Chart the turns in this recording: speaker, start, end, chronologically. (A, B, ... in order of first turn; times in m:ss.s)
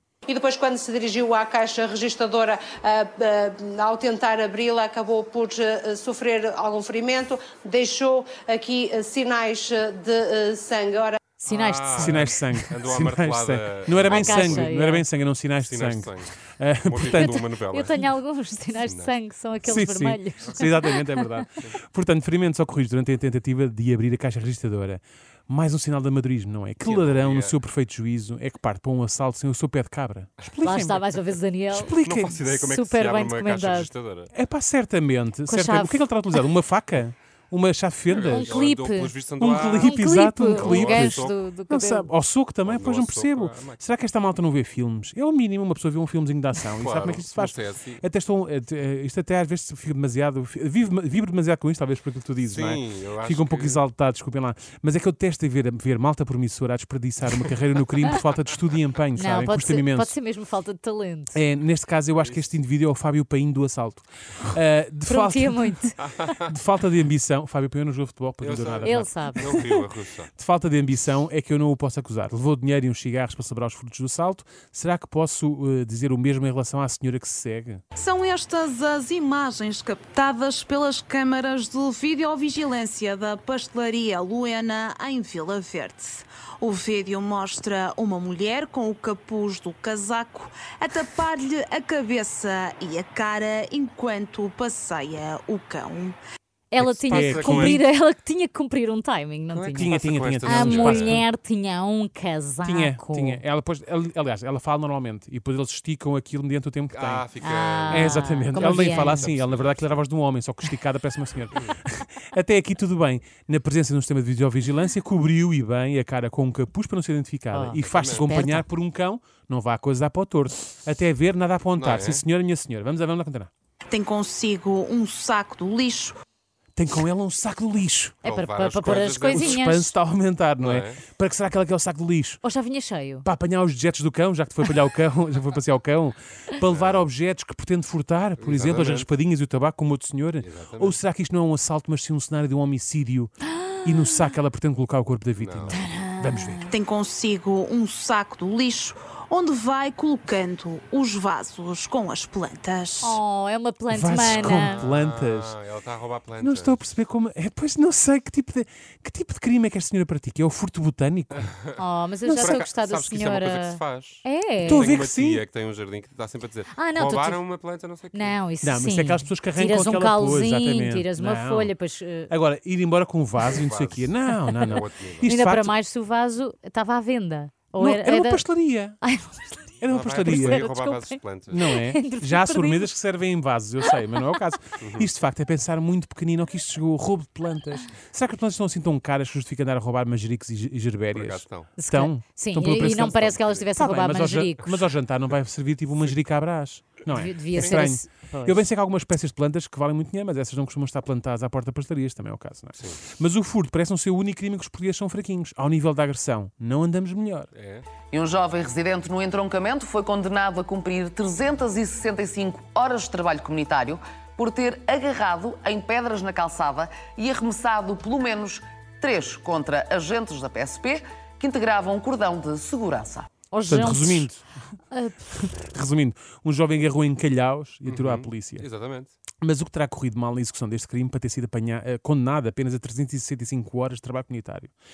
0:00.3-0:11.2 A
0:11.4-0:12.6 B
0:11.5-0:14.7 C
0:11.9-0:17.4 D
0:14.0-0:15.0 B
0:15.6-0:16.3 C
0:16.8-0:18.2 C
0:17.1-0:21.4 B
0:18.8-0:19.1 C
0:19.6-0:31.0 D
0:26.8-0:27.6 C
0:30.6-0:31.9 B
0:31.7-0:32.5 D
0:31.8-0:34.3 C
0:32.6-0:33.9 B
0:34.3-0:38.5 D
0:35.5-0:36.4 B
0:38.1-0:40.0 C
0:38.2-0:39.1 B
0:39.4-1:00.1 D
0:39.7-0:42.1 B
0:40.5-0:41.4 C
0:42.6-0:43.8 C
0:46.7-0:48.0 C
0:52.5-0:53.8 C
0:59.1-1:01.4 B
1:01.3-1:09.6 D
1:02.1-1:02.5 C
1:05.1-1:06.0 B
1:08.4-1:10.3 C
1:08.8-1:09.7 B
1:10.4-1:17.8 D
1:18.0-1:36.2 E
1:36.7-1:39.9 B
1:36.8-1:37.8 D
1:36.9-1:37.8 C
1:39.5-1:41.2 C
1:39.7-1:41.2 D
1:40.4-1:43.4 B
1:42.6-1:47.2 D
1:46.9-1:49.9 C
1:47.4-1:49.2 B
1:47.9-2:03.5 D
1:57.5-1:58.6 B
1:57.7-1:58.4 C
2:01.8-2:02.2 C
2:03.9-2:06.2 E
2:06.8-2:08.2 D
2:08.2-2:09.7 C
2:08.2-2:09.9 B
2:08.8-2:12.4 D
2:10.6-2:11.0 C
2:12.4-2:13.2 B
2:13.2-2:23.3 D
2:16.6-2:17.1 C
2:18.4-2:19.1 C
2:20.4-2:21.0 C
2:23.6-2:24.1 B
2:23.8-2:26.7 D
2:25.4-2:25.8 C
2:25.7-2:26.7 B
2:26.7-2:33.2 E
2:33.0-2:34.8 B
2:33.9-2:35.5 D
2:34.1-2:36.8 C
2:36.4-2:41.5 D
2:41.8-2:45.0 B
2:42.2-2:42.6 D
2:42.3-2:48.4 C
2:44.6-2:45.4 D
2:46.7-2:47.4 B
2:48.1-2:52.3 B
2:48.6-2:51.7 D
2:52.3-2:55.8 D
2:53.4-2:54.1 C
2:54.6-2:55.3 C
2:55.2-2:58.4 B
2:57.8-2:59.0 D
2:59.0-2:59.7 B
2:59.8-3:00.7 D
2:59.9-3:01.8 C
3:00.2-3:02.9 B
3:01.5-3:27.5 D
3:04.8-3:05.1 C
3:11.1-3:11.7 C
3:11.8-3:14.7 B
3:13.1-3:13.6 C
3:17.1-3:18.6 B
3:17.5-3:17.8 C
3:27.5-3:27.8 C
3:28.1-3:43.3 F
3:43.5-3:44.3 B
3:43.7-3:44.4 D
3:44.9-3:45.2 B
3:45.3-3:48.6 D
3:47.8-3:49.1 C
3:49.4-3:54.7 D